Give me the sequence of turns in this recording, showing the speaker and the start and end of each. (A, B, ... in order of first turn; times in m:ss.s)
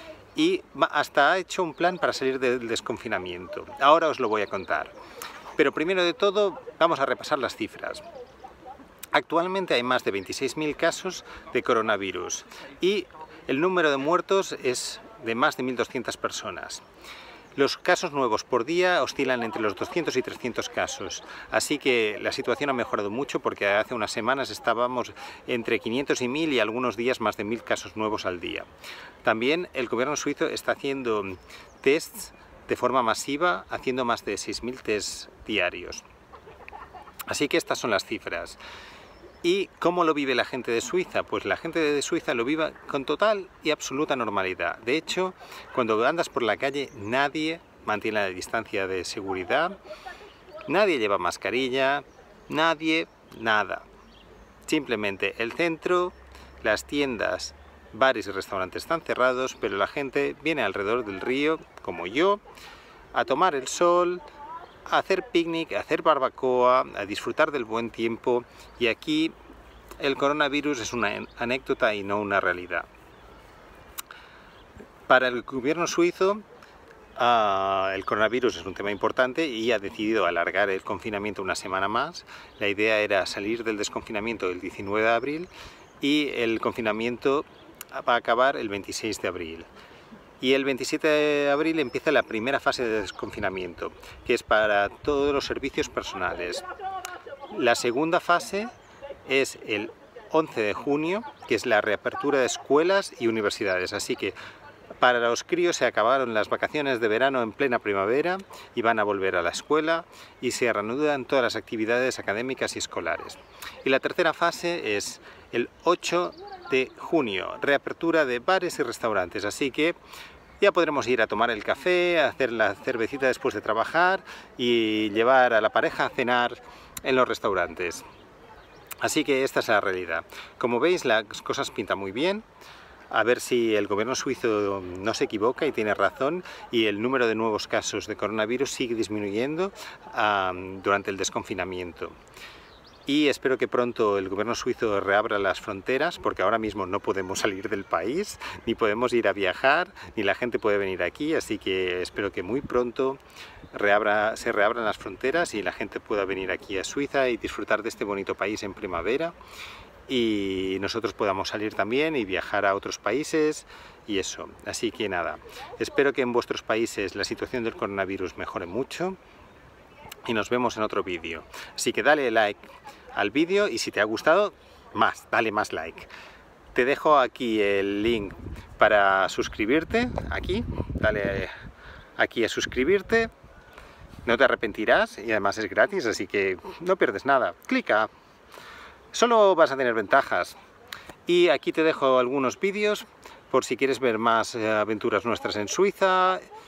0:00.4-0:04.9 A
0:05.6-0:08.0 A
0:09.1-0:16.8 A
0:17.6-0:28.7 A
0:29.2-0:36.0 A
0:37.3-0:38.6 A
0:39.4-0:49.8 A
0:50.7-0:53.8 A
0:54.7-1:02.4 A
1:03.1-1:04.2 A
1:04.9-1:09.3 A
1:10.0-1:12.9 A
1:15.1-1:16.4 A
1:17.2-1:25.5 A
1:26.0-1:29.7 A
1:30.4-1:36.6 A
1:37.5-1:38.7 A
1:39.3-1:44.4 A
1:45.0-2:00.0 A
2:00.6-2:08.0 A
2:09.0-2:12.4 A
2:13.1-2:22.2 A
2:23.1-2:33.2 A
2:33.7-2:39.4 A
2:40.1-2:49.2 A
2:50.3-2:56.1 A
2:56.8-3:01.5 A
3:02.2-3:03.3 A
3:04.3-3:08.1 A
3:09.1-3:10.6 A
3:11.3-3:16.5 A